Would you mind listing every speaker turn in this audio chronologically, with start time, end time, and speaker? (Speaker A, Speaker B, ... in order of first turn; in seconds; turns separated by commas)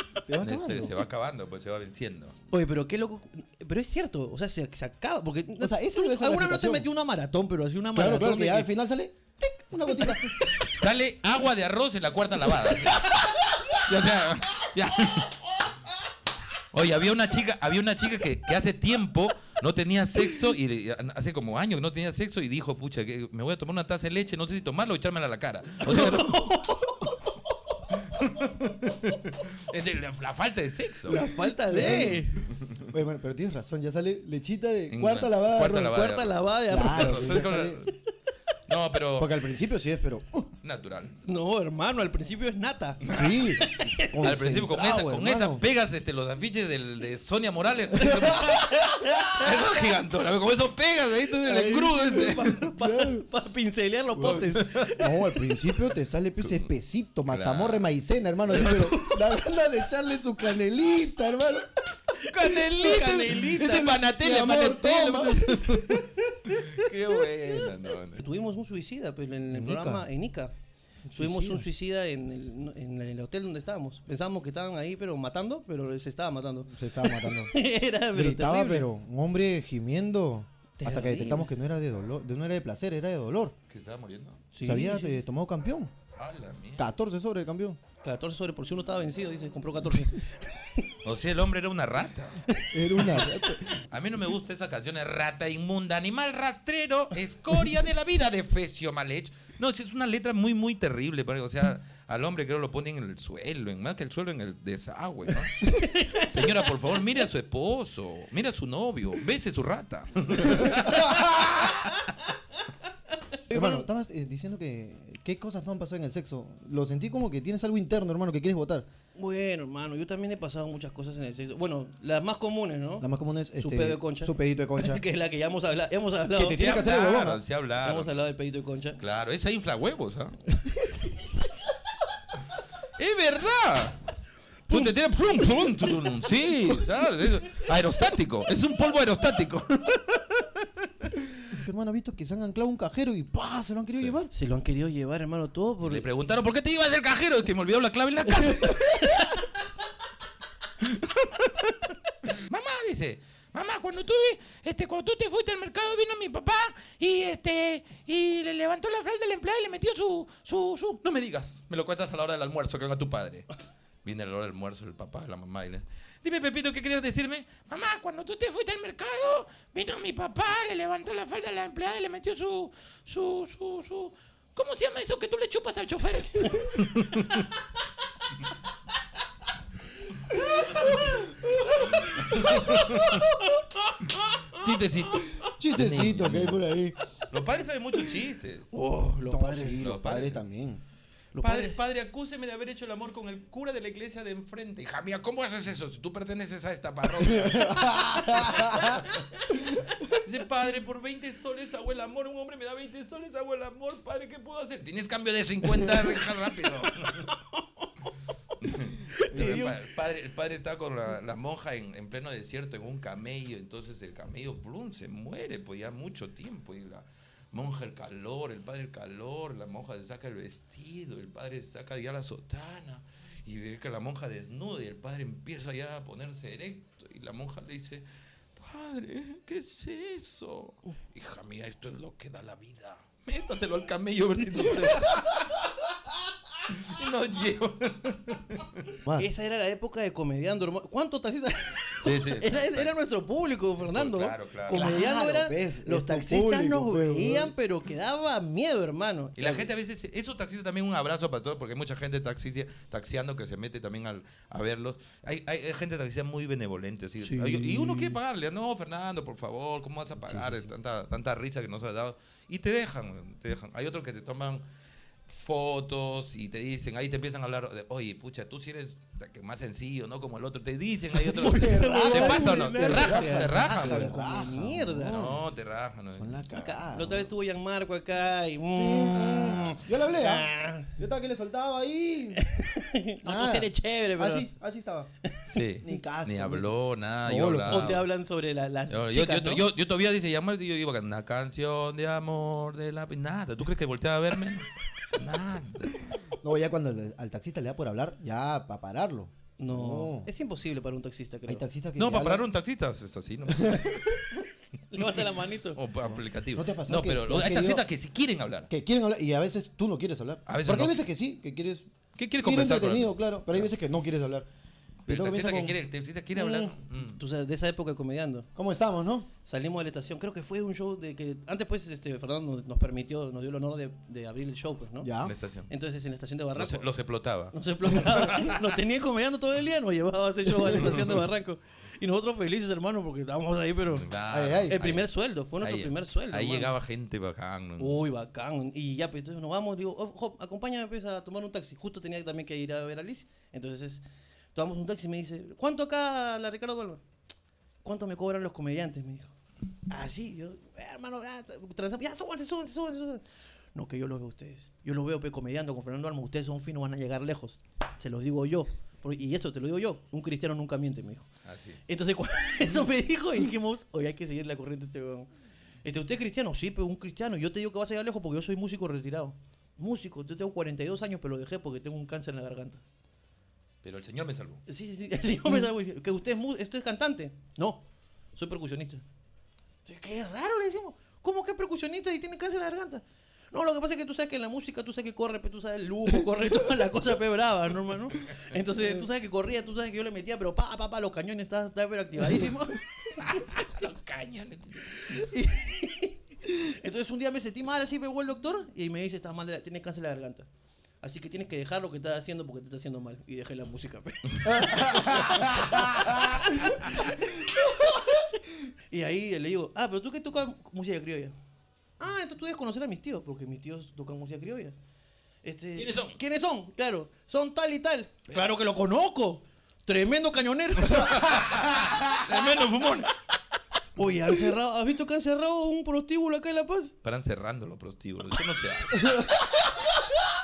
Speaker A: 0.2-1.0, Speaker B: 0.4-2.3, Speaker C: 2.5-8.7, Speaker A: 5.6-6.9, Speaker A: 7.9-10.3, Speaker C: 10.0-10.6, Speaker B: 10.6-15.4, Speaker C: 12.6-13.3, Speaker B: 16.7-26.4, Speaker C: 25.8-27.8, Speaker B: 28.0-31.2, Speaker C: 31.1-32.4, Speaker A: 31.2-32.3, Speaker B: 31.8-32.9, Speaker A: 32.9-35.9, Speaker B: 34.9-38.0, Speaker C: 35.6-37.5, Speaker A: 36.7-37.8, Speaker B: 38.7-39.4, Speaker A: 39.2-40.5, Speaker B: 40.6-41.2, Speaker C: 41.2-44.3, Speaker B: 43.0-52.7, Speaker A: 43.1-45.6, Speaker A: 48.0-48.5, Speaker C: 48.2-49.9, Speaker C: 51.5-55.3, Speaker A: 52.7-53.2, Speaker B: 54.2-55.0, Speaker A: 55.0-61.7, Speaker B: 56.4-56.7, Speaker B: 57.3-57.9, Speaker B: 58.5-59.2, Speaker C: 62.2-64.1, Speaker B: 62.2-68.2, Speaker A: 64.1-66.0, Speaker C: 68.1-70.5, Speaker A: 69.5-70.0, Speaker A: 71.1-71.7, Speaker C: 71.1-78.9, Speaker A: 76.7-77.5, Speaker A: 78.1-83.5, Speaker C: 80.8-81.5, Speaker B: 83.7-84.5, Speaker C: 84.5-85.2, Speaker A: 84.6-85.9, Speaker B: 86.2-86.8, Speaker A: 86.8-87.8, Speaker C: 88.0-90.9, Speaker B: 91.0-92.4, Speaker C: 92.5-93.3, Speaker A: 92.7-93.8, Speaker B: 93.8-112.0, Speaker C: 105.6-106.8, Speaker C: 110.5-112.1, Speaker A: 110.6-111.7, Speaker C: 112.6-113.9, Speaker A: 113.5-118.9, Speaker C: 119.1-123.0, Speaker A: 123.0-125.0, Speaker C: 123.6-126.7, Speaker A: 126.3-127.4, Speaker B: 126.5-128.1, Speaker C: 127.8-129.0, Speaker B: 129.0-130.4, Speaker B: 133.0-134.0, Speaker B: 134.7-140.7, Speaker C: 135.6-136.1, Speaker A: 141.5-144.3, Speaker C: 144.3-146.1, Speaker B: 145.8-149.5, Speaker C: 148.3-149.4, Speaker B: 150.8-163.5, Speaker B: 164.0-177.5, Speaker A: 180.3-183.2, Speaker B: 181.7-183.3, Speaker C: 182.3-185.3, Speaker B: 184.5-186.7, Speaker A: 185.5-187.0, Speaker B: 187.3-188.8, Speaker C: 188.7-189.8, Speaker A: 189.2-190.8, Speaker B: 189.6-190.4, Speaker C: 191.3-191.8, Speaker B: 191.4-207.3, Speaker A: 197.2-199.1, Speaker C: 206.8-208.0, Speaker B: 208.6-228.0, Speaker C: 209.1-209.9, Speaker A: 209.3-209.7, Speaker B: 228.6-235.9, Speaker B: 236.6-238.8, Speaker C: 239.2-249.7, Speaker B: 242.0-242.9, Speaker B: 243.8-244.9, Speaker A: 244.7-247.5, Speaker B: 249.4-264.6, Speaker C: 257.2-258.2, Speaker A: 260.2-260.7, Speaker B: 265.3-274.2, Speaker C: 271.2-275.4, Speaker A: 271.4-275.4, Speaker B: 275.0-276.5, Speaker A: 276.1-277.3, Speaker C: 276.6-280.9, Speaker A: 278.7-282.4, Speaker C: 282.4-284.5, Speaker A: 283.2-285.1, Speaker C: 285.2-285.6, Speaker B: 285.5-288.1, Speaker A: 285.8-286.7, Speaker A: 287.2-288.0, Speaker C: 287.7-289.6, Speaker B: 288.9-296.2, Speaker A: 296.4-300.3, Speaker C: 299.6-301.6, Speaker A: 301.5-302.4, Speaker B: 302.0-304.2, Speaker A: 303.5-304.2, Speaker C: 304.9-305.8, Speaker B: 305.0-308.7, Speaker A: 306.5-307.8, Speaker A: 308.7-311.9, Speaker B: 310.5-311.0, Speaker B: 312.1-313.7, Speaker A: 312.4-314.5, Speaker A: 315.1-315.8, Speaker B: 315.1-317.2, Speaker C: 316.4-318.5, Speaker A: 318.5-319.3, Speaker C: 319.4-325.1, Speaker A: 325.0-325.3, Speaker B: 325.2-325.7, Speaker C: 325.7-326.9, Speaker B: 326.5-328.7, Speaker C: 327.5-334.1, Speaker B: 330.6-331.2, Speaker B: 333.9-338.0, Speaker A: 334.3-334.8, Speaker C: 334.7-336.7, Speaker C: 337.8-344.0, Speaker C: 344.5-347.0, Speaker C: 347.8-349.3, Speaker C: 349.9-361.3, Speaker B: 361.4-361.8, Speaker C: 361.9-365.3, Speaker C: 365.8-372.8, Speaker B: 373.8-374.6, Speaker C: 374.7-379.0, Speaker C: 379.8-393.4, Speaker B: 393.2-395.2, Speaker C: 394.9-400.5, Speaker C: 401.0-411.3, Speaker A: 404.5-406.8, Speaker C: 412.0-414.8, Speaker C: 415.4-421.6, Speaker B: 415.8-416.2, Speaker B: 420.9-423.1, Speaker C: 423.9-426.9, Speaker B: 427.0-429.3, Speaker A: 428.9-430.0